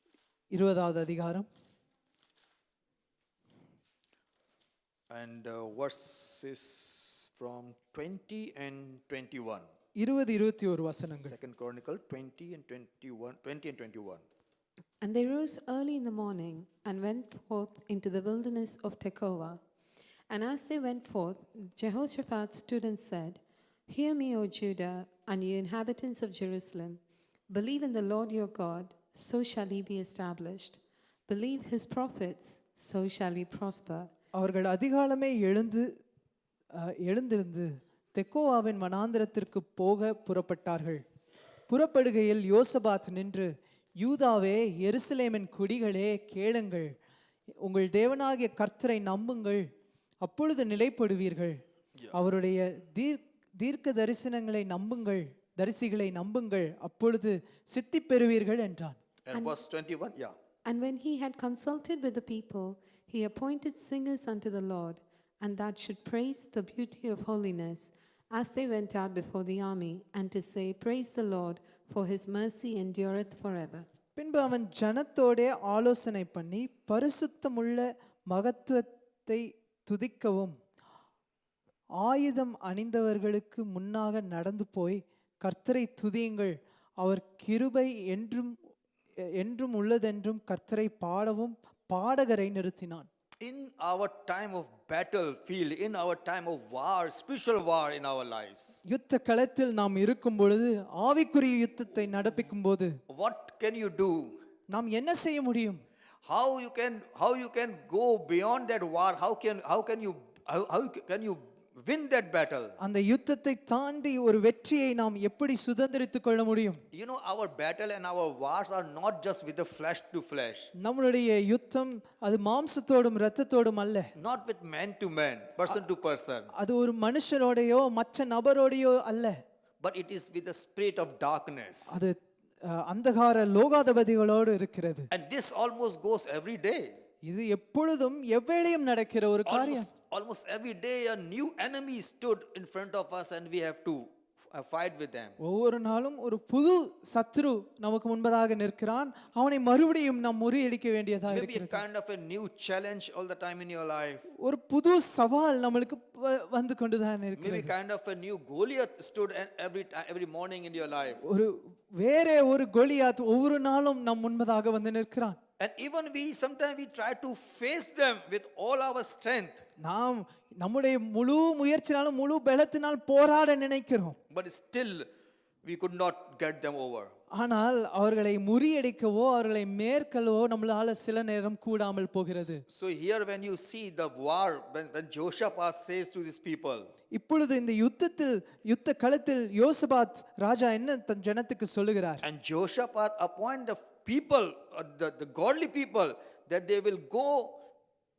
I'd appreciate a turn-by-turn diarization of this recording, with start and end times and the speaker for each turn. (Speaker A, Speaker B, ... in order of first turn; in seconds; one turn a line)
Speaker A: 0.5-1.4
Speaker B: 5.1-9.7
Speaker A: 10.0-11.3
Speaker B: 11.2-14.2
Speaker C: 15.0-19.6
Speaker C: 20.3-34.1
Speaker A: 34.4-35.9
Speaker A: 36.7-41.0
Speaker A: 41.7-46.9
Speaker A: 47.6-49.6
Speaker A: 50.2-51.6
Speaker A: 52.1-59.0
Speaker B: 59.3-60.4
Speaker C: 60.7-73.9
Speaker A: 74.2-80.5
Speaker A: 82.0-88.5
Speaker A: 89.2-93.1
Speaker B: 93.4-98.8
Speaker A: 98.9-102.9
Speaker B: 103.1-104.4
Speaker A: 104.7-105.8
Speaker B: 106.3-112.8
Speaker A: 112.8-116.8
Speaker B: 116.9-120.7
Speaker A: 120.8-124.1
Speaker B: 124.2-126.5
Speaker A: 126.6-129.4
Speaker B: 129.8-132.0
Speaker A: 131.9-135.1
Speaker B: 135.1-137.0
Speaker A: 137.2-139.9
Speaker B: 139.4-145.3
Speaker A: 145.4-151.9
Speaker B: 151.3-154.3
Speaker A: 154.4-157.7
Speaker B: 157.4-161.2
Speaker A: 161.2-165.4
Speaker B: 165.6-169.6
Speaker A: 169.8-174.2
Speaker B: 174.3-175.1
Speaker B: 175.6-177.1
Speaker A: 177.3-182.6
Speaker B: 182.6-186.9
Speaker A: 187.1-192.2
Speaker B: 192.2-197.6